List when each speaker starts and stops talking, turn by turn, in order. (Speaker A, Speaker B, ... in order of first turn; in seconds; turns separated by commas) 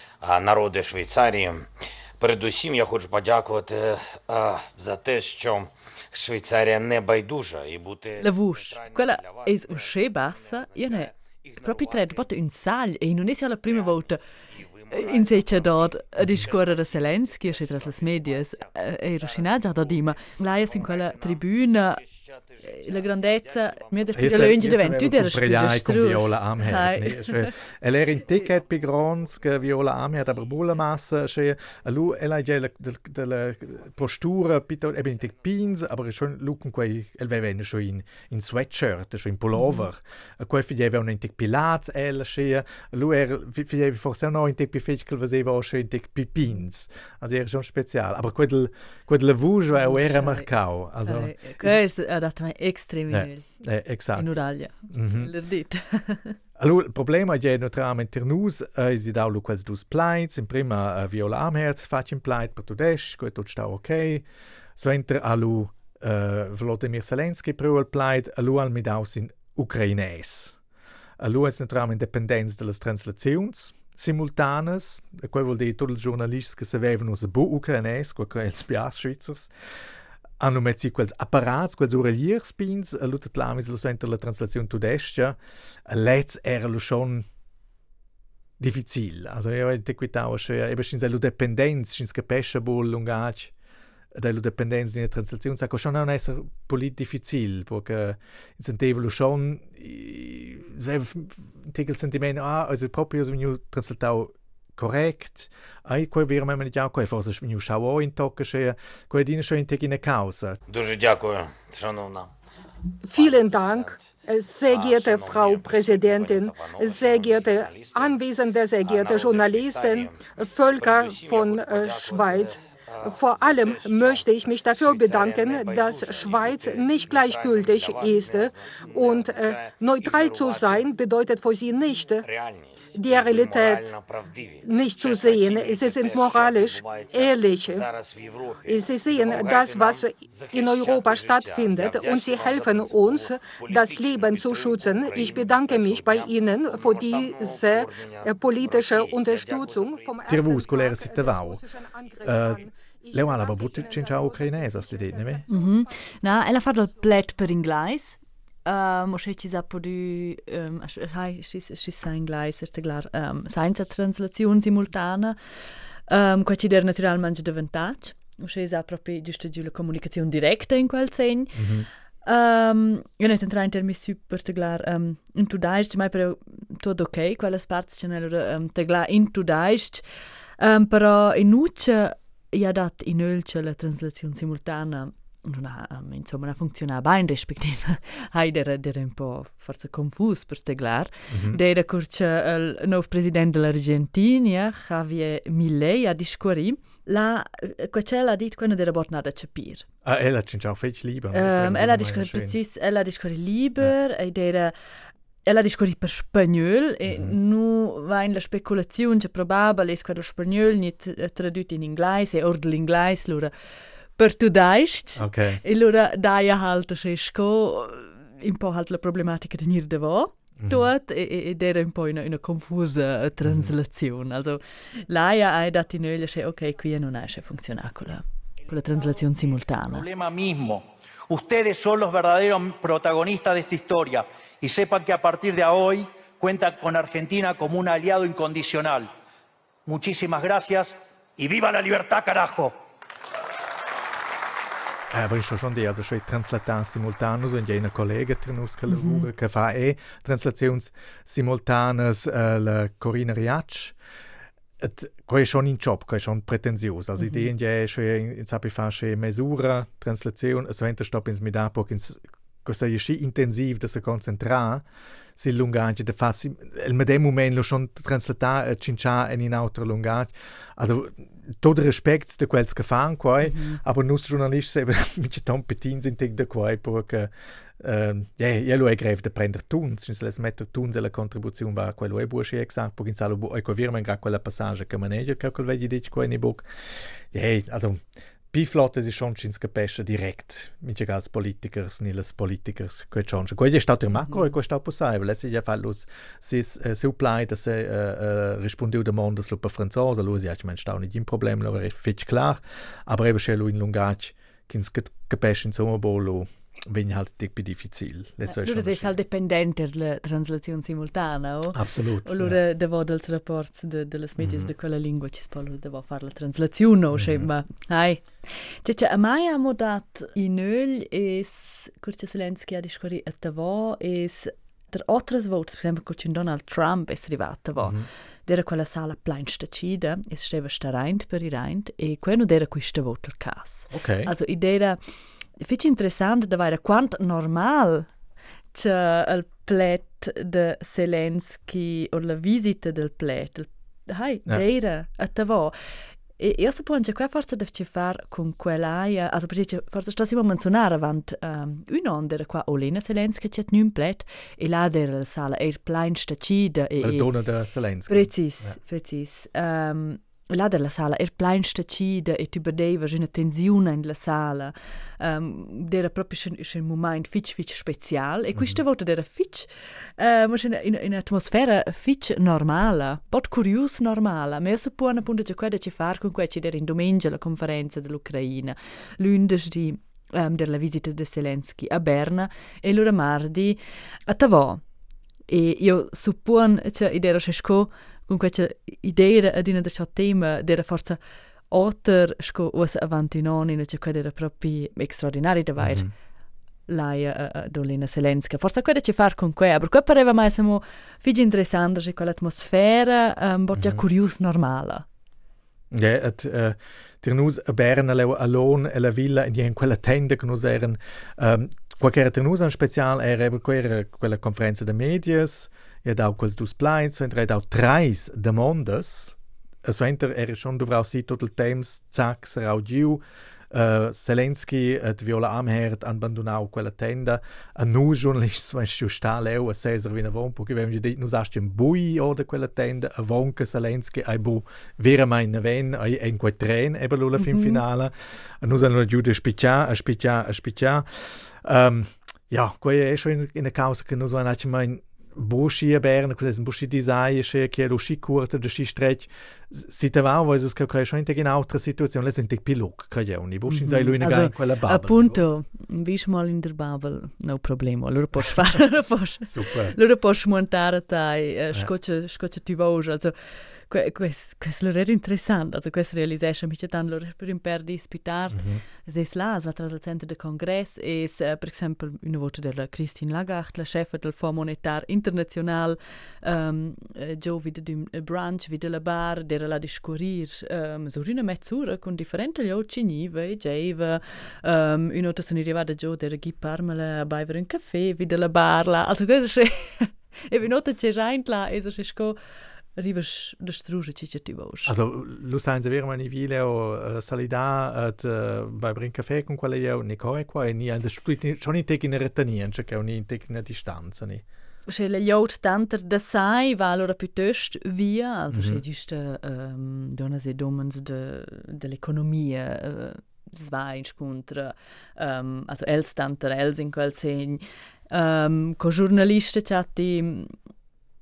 Speaker A: 0.2-12.2, Speaker B: 8.2-14.2, Speaker A: 13.7-24.4, Speaker B: 14.9-22.0, Speaker B: 22.6-27.5, Speaker C: 24.1-51.7, Speaker B: 49.7-50.5, Speaker B: 51.0-53.4, Speaker C: 53.1-54.4, Speaker B: 54.1-56.4, Speaker C: 54.9-55.3, Speaker C: 56.6-64.2, Speaker C: 64.8-70.5, Speaker C: 71.2-79.5, Speaker C: 80.4-87.2, Speaker C: 88.6-93.5, Speaker C: 94.1-110.6, Speaker A: 110.7-112.3, Speaker D: 113.1-132.2, Speaker A: 113.1-114.1, Speaker A: 114.7-118.2, Speaker A: 118.8-130.9, Speaker A: 132.2-150.4, Speaker D: 132.9-133.9, Speaker D: 134.6-137.8, Speaker D: 138.7-156.5, Speaker C: 150.3-151.6, Speaker C: 152.2-155.4, Speaker B: 155.5-165.4, Speaker B: 166.1-171.6, Speaker C: 171.5-171.9, Speaker B: 172.2-180.0, Speaker B: 180.6-199.8, Speaker C: 191.3-191.6, Speaker C: 200.0-202.6, Speaker B: 201.3-204.7, Speaker B: 205.4-213.5, Speaker C: 207.1-207.3, Speaker B: 214.2-230.1, Speaker C: 215.2-215.6, Speaker C: 220.6-220.9, Speaker C: 223.4-223.7, Speaker E: 229.8-239.1, Speaker E: 239.8-242.7, Speaker C: 245.1-253.9, Speaker B: 248.9-249.2, Speaker C: 254.8-264.8, Speaker B: 257.2-257.5, Speaker C: 265.4-309.1, Speaker B: 273.4-273.8, Speaker B: 294.2-294.5, Speaker B: 308.5-335.0, Speaker C: 311.7-312.6, Speaker C: 314.4-314.7, Speaker C: 317.1-317.5, Speaker C: 327.8-328.1, Speaker C: 333.9-334.3, Speaker B: 335.6-338.1, Speaker B: 338.7-345.7, Speaker B: 346.4-357.3, Speaker C: 357.0-358.8, Speaker B: 358.1-384.8, Speaker B: 385.5-391.2, Speaker B: 391.7-396.1, Speaker C: 395.8-396.1, Speaker B: 396.9-405.0, Speaker C: 403.7-404.0, Speaker C: 405.9-455.4, Speaker B: 437.4-437.8, Speaker B: 453.7-492.4, Speaker C: 459.4-459.9, Speaker C: 468.5-468.8, Speaker B: 493.0-494.9, Speaker C: 494.8-504.4, Speaker B: 504.9-520.5, Speaker C: 508.5-508.8